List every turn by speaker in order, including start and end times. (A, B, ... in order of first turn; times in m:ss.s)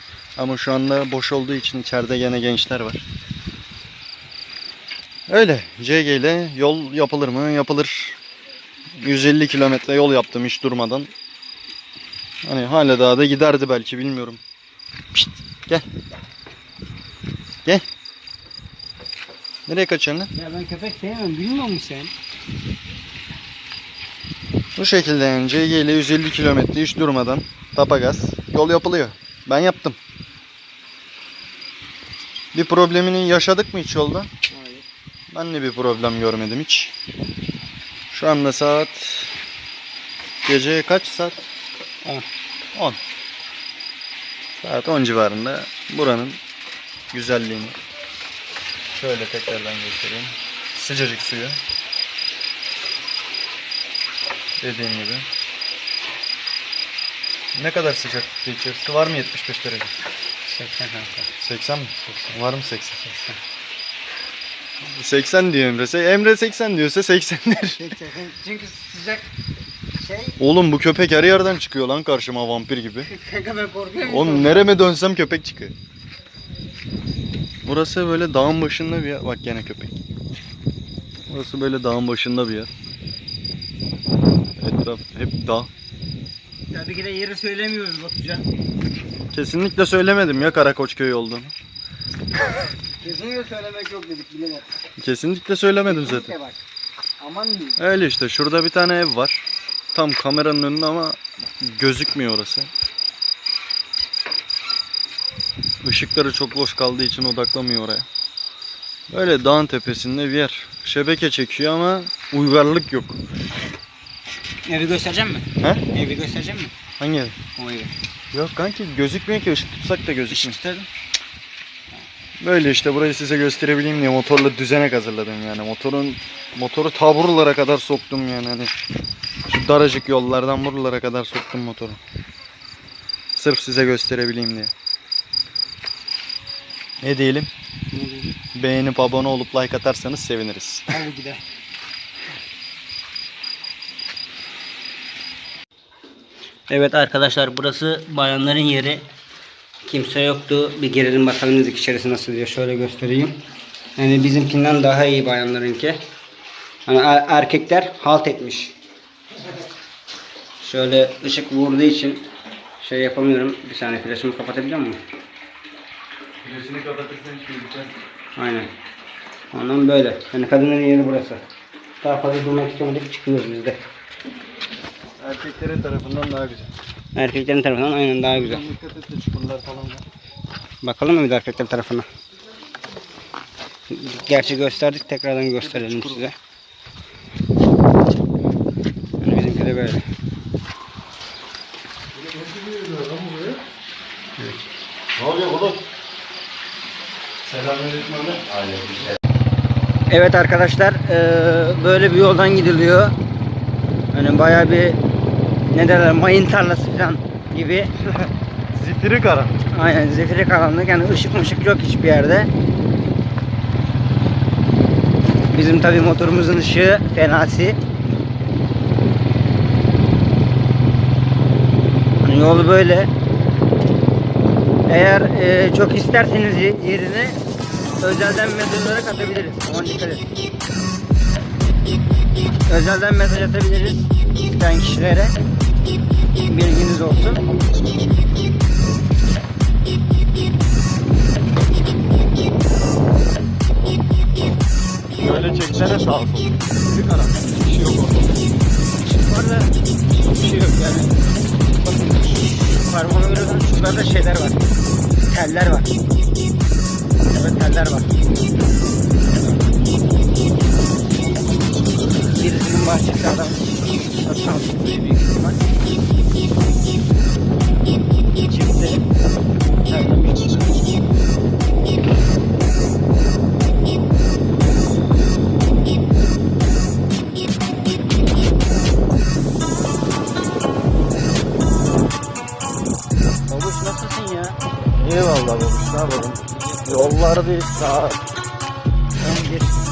0:00.4-0:03.0 A
0:05.3-0:08.2 A
0:09.0-0:11.1 A
0:12.4-0:14.4 A
0:15.1-0:15.9 A
0:19.7-0:20.3 A
0:20.4-0:22.1 B
0:24.8-0:30.0 A
0:32.5-0:34.3 A
0:35.3-0:36.9 A
0:38.1-0:39.4 A
0:40.4-0:41.5 A
0:44.6-0:46.4 A
0:47.1-0:47.8 A
0:48.9-0:51.6 A
0:54.6-0:55.3 A
0:57.5-1:00.0 A
1:00.4-1:01.3 B
1:01.4-1:03.0 A
1:03.0-1:03.4 B
1:04.8-1:07.9 A
1:07.8-1:09.3 B
1:10.0-1:10.4 B
1:10.4-1:13.1 A
1:13.1-1:14.7 B
1:14.1-1:15.8 A
1:17.6-1:20.0 A
1:21.3-1:22.7 A
1:24.6-1:25.7 A
1:26.7-1:28.5 B
1:29.3-1:31.6 A
1:33.0-1:34.7 B
1:35.0-1:36.3 A
1:35.9-1:36.6 B
1:37.2-1:37.8 B
1:37.8-1:42.7 A
1:45.8-1:48.1 A
1:49.1-1:53.2 A
1:54.7-1:56.7 B
1:55.6-1:55.8 A
1:57.0-1:57.4 A
1:57.6-1:57.9 B
1:58.3-2:00.6 A
2:00.3-2:00.9 B
2:02.4-2:08.8 A
2:09.5-2:12.0 A
2:13.4-2:14.7 A
2:17.0-2:17.5 A
2:17.9-2:18.4 B
2:18.6-2:20.9 A
2:20.9-2:21.4 B
2:26.7-2:29.0 B
2:29.9-2:33.4 B
2:34.0-2:36.0 B
2:36.9-2:38.7 B
2:40.6-2:42.3 B
2:42.8-2:45.0 B
2:46.4-2:47.9 A
2:48.4-2:48.7 B
2:49.5-2:51.4 B
2:52.0-2:53.8 B
2:55.2-2:56.7 A
2:57.2-2:58.6 B
2:58.2-3:00.0 A
3:00.8-3:02.0 B
3:03.9-3:06.4 B
3:05.6-3:06.2 A
3:09.2-3:10.0 B
3:12.3-3:13.6 A
3:15.2-3:15.8 A
3:17.4-3:18.9 A
3:20.1-3:23.2 B
3:24.1-3:25.0 B
3:25.7-3:27.9 B
3:28.0-3:29.6 A
3:29.7-3:32.5 B
3:35.5-3:37.8 B
3:42.2-3:43.1 B
3:44.9-3:47.4 B
3:48.0-3:50.3 B
3:52.6-3:55.4 B
3:56.4-3:57.4 B
4:05.2-4:08.3 A
4:09.0-4:11.3 B
4:12.4-4:14.7 B
4:15.3-4:15.9 B
4:17.3-4:18.1 B
4:22.3-4:25.6 B
4:28.4-4:29.0 B
4:29.8-4:31.0 B
4:43.5-4:44.6 B
4:45.0-4:48.2 A
4:49.2-4:49.8 B